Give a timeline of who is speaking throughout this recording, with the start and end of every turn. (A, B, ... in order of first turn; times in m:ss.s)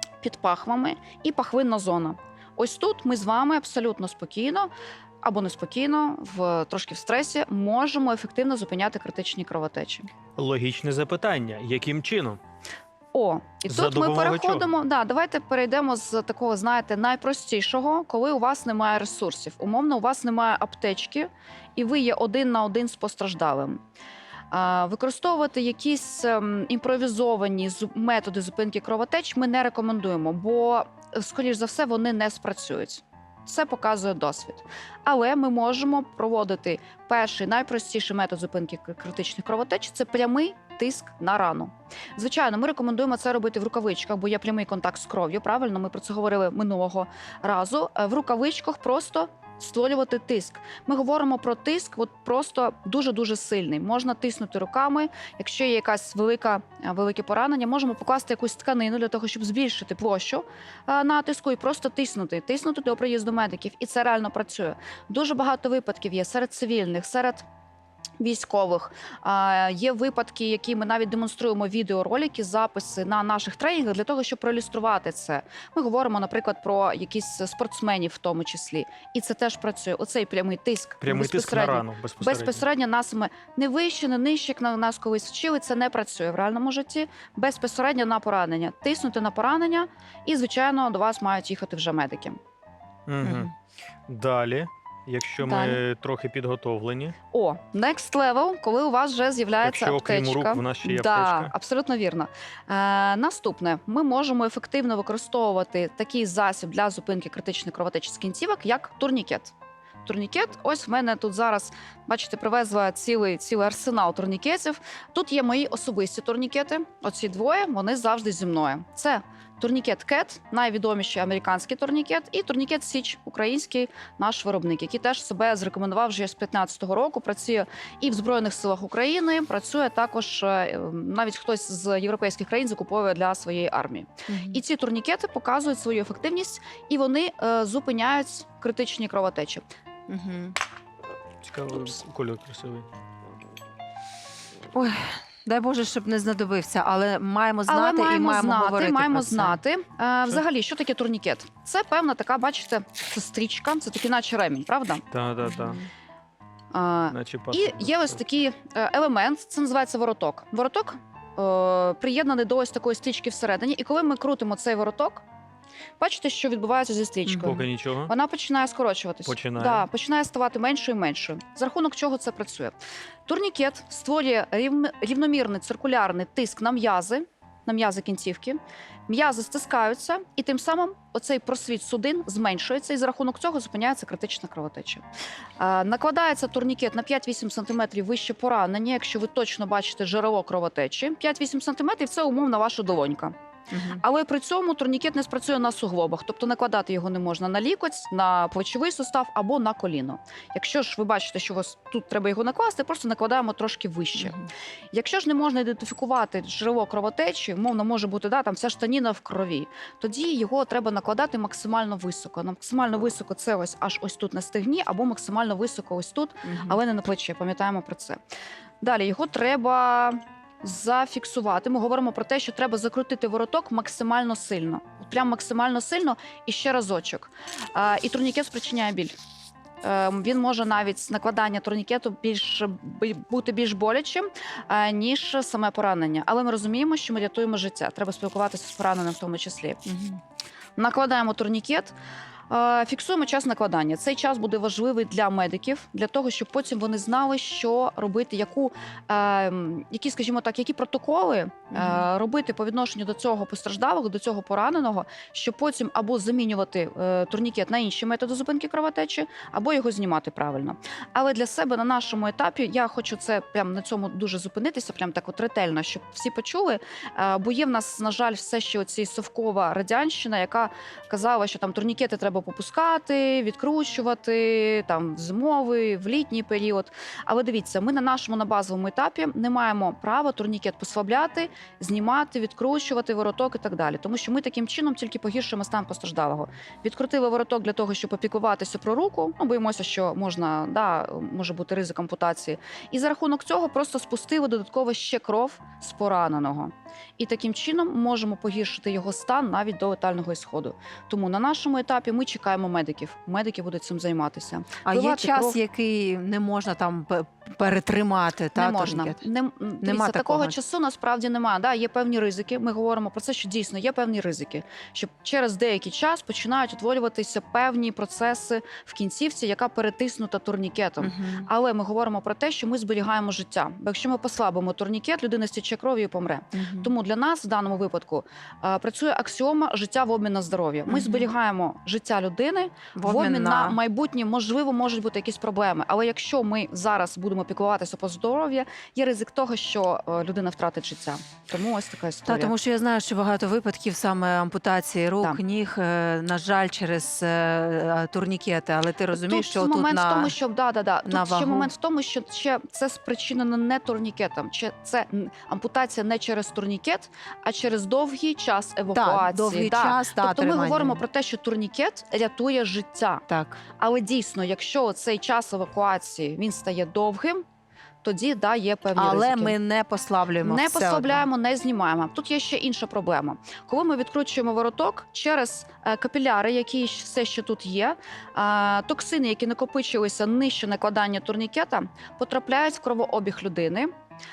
0:00.2-0:04.7 A
0:05.2-0:10.1 A
0:10.4-0:12.4 B
0:13.1-0:23.8 A
0:13.7-0:14.7 B
0:24.5-1:07.4 A
1:08.2-1:32.4 A
1:21.0-1:22.6 B
1:33.1-1:33.5 B
1:33.2-1:33.5 C
1:34.1-1:37.2 B
1:35.4-1:35.8 A
1:37.3-1:49.5 A
1:39.6-1:41.5 B
1:50.0-2:19.7 A
2:14.3-2:14.6 C
2:20.1-2:20.6 C
2:21.4-2:22.9 B
2:24.7-2:29.6 C
2:27.7-2:35.0 A
2:35.1-2:35.8 B
2:35.5-2:35.8 C
2:36.7-2:45.2 A
2:37.1-2:38.2 B
2:46.0-2:52.8 A
2:47.2-2:47.6 C
2:47.4-2:48.1 B
2:49.2-2:49.9 B
2:53.2-3:05.0 A
3:05.6-3:13.4 A
3:13.7-3:14.0 C
3:13.9-3:24.4 A
3:24.2-3:24.5 C
3:24.9-3:38.2 A
3:36.4-3:36.8 C
3:38.8-3:49.1 A
3:49.8-3:59.8 A
3:59.9-4:00.2 C
4:00.8-4:01.9 A
4:02.5-5:05.6 A
5:04.8-5:09.2 C
5:08.5-5:42.5 A
5:09.8-5:10.5 C
5:21.0-5:21.5 C
5:26.5-5:26.9 C
5:30.9-5:31.3 C
5:33.0-5:33.8 C
5:42.2-5:50.4 C
5:49.1-6:03.2 A
5:51.0-5:51.7 C
5:58.9-6:01.0 C
6:03.3-6:03.6 C
6:03.8-6:07.4 A
6:08.0-6:09.6 A
6:09.0-6:11.2 C
6:10.4-6:23.9 A